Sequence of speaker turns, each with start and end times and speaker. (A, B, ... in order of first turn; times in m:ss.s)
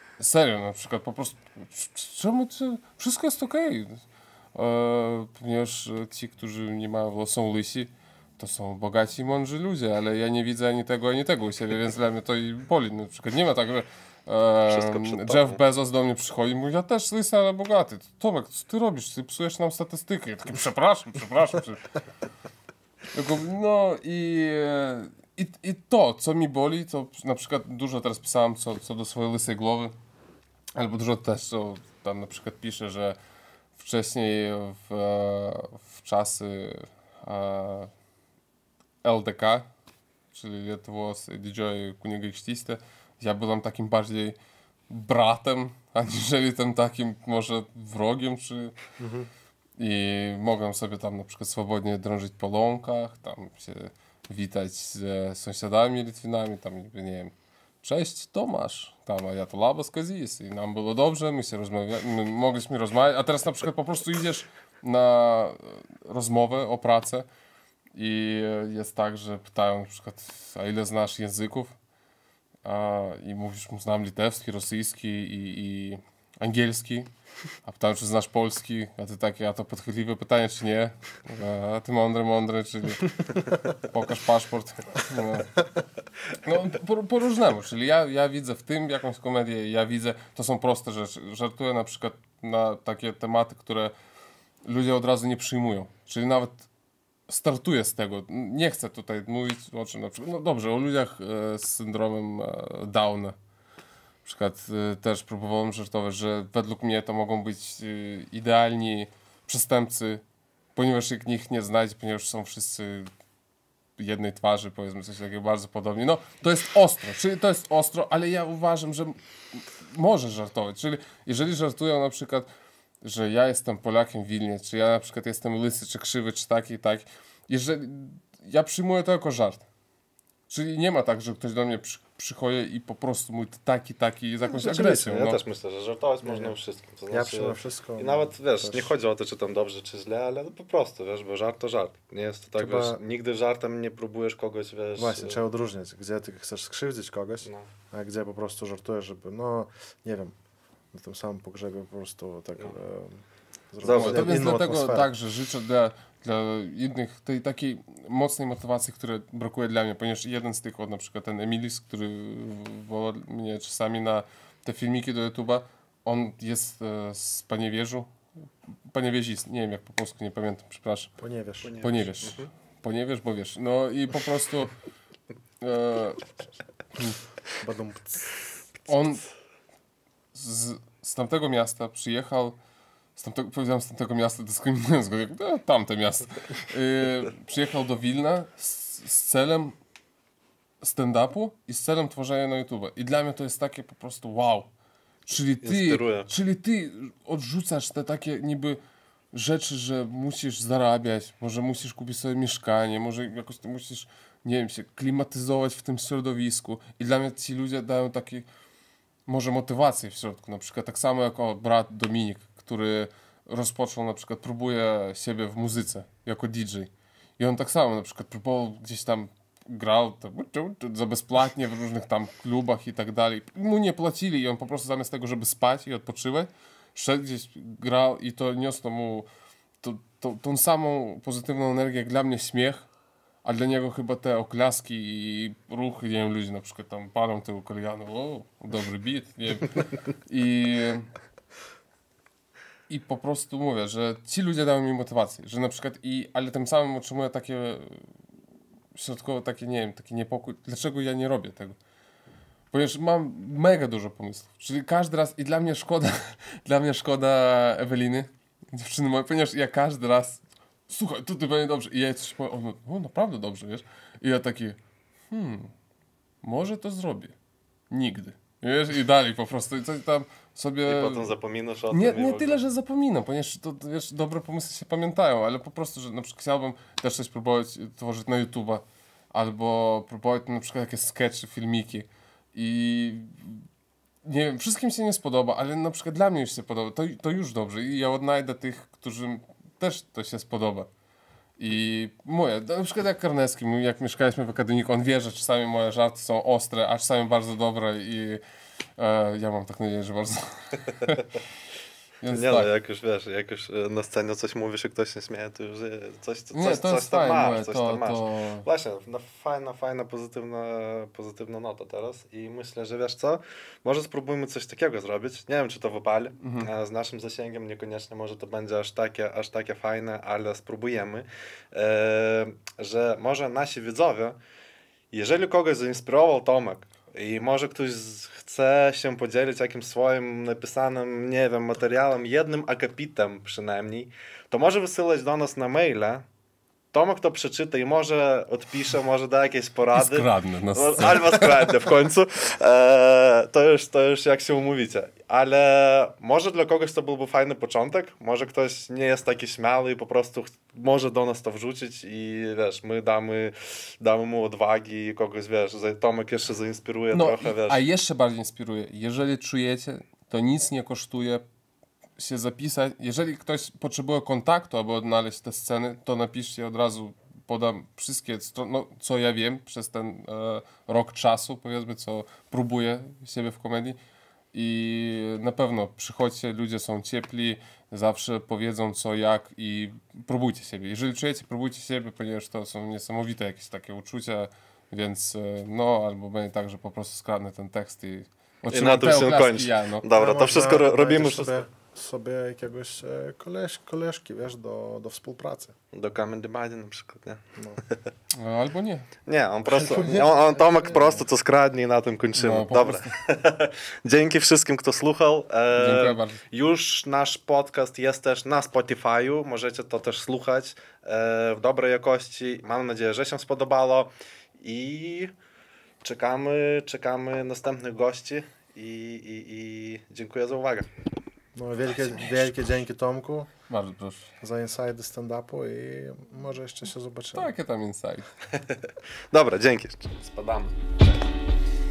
0:00.2-0:04.0 A
0:04.6-0:21.9 A
0:14.7-0:15.6 B
0:23.1-0:29.9 A
0:30.7-0:33.2 A
0:33.8-0:37.9 A
0:39.0-0:39.7 A
0:40.3-0:44.4 A
0:44.9-0:48.7 A
0:49.0-0:49.3 C
0:49.8-1:07.3 A
1:08.0-1:11.7 A
1:12.6-1:17.1 A
1:17.6-1:25.6 A
1:26.4-1:33.9 A
1:34.6-1:36.6 A
1:37.3-1:43.4 A
1:44.2-1:50.2 A
1:50.7-1:53.1 A
1:54.0-2:02.5 A
2:03.0-2:09.6 A
2:10.5-2:15.4 A
2:14.6-2:25.4 B
2:14.7-2:15.1 C
2:16.2-2:16.6 C
2:17.1-2:18.9 C
2:22.6-2:23.0 C
2:25.0-2:30.3 C
2:30.9-2:35.1 C
2:33.8-2:34.4 B
2:33.9-2:48.1 A
2:48.9-2:51.1 A
2:51.2-2:51.8 C
2:51.6-2:52.5 B
2:51.8-2:54.7 A
2:55.6-2:56.3 A
2:57.6-2:58.4 C
2:58.9-2:59.2 A
3:00.3-3:02.6 A
3:03.2-3:09.7 A
3:10.8-3:14.7 A
3:15.3-3:18.8 A
3:15.6-3:16.3 B
3:19.3-3:28.4 A
3:29.3-3:49.3 A
3:49.8-3:52.9 A
3:53.4-3:59.7 A
4:00.3-4:01.1 A
4:02.9-4:08.0 A
4:09.0-4:11.8 A
4:12.7-4:24.8 A
4:25.3-4:25.7 A
4:26.4-4:27.3 A
4:27.9-4:31.3 A
4:30.9-4:32.6 B
4:31.9-4:43.6 A
4:44.2-4:50.9 A
4:51.6-4:58.4 A
4:59.0-5:01.3 A
5:02.2-5:02.7 A
5:02.3-5:24.4 B
5:06.5-5:08.6 A
5:16.4-5:16.7 A
5:25.1-5:36.2 B
5:36.9-5:57.8 B
5:39.9-5:41.8 A
5:57.1-6:01.4 A
6:02.2-6:14.0 A
6:14.5-6:30.0 A
6:28.7-6:31.6 B
6:30.1-6:35.7 C
6:35.9-6:38.0 B
6:38.4-6:39.1 A
6:39.3-6:55.3 B
6:39.7-6:41.2 C
6:42.4-6:43.2 A
6:45.7-6:46.4 A
6:56.0-7:00.9 B
7:01.6-7:03.5 C
7:03.7-7:04.3 A
7:04.4-7:07.5 C
7:07.4-7:08.3 A
7:09.3-7:11.0 B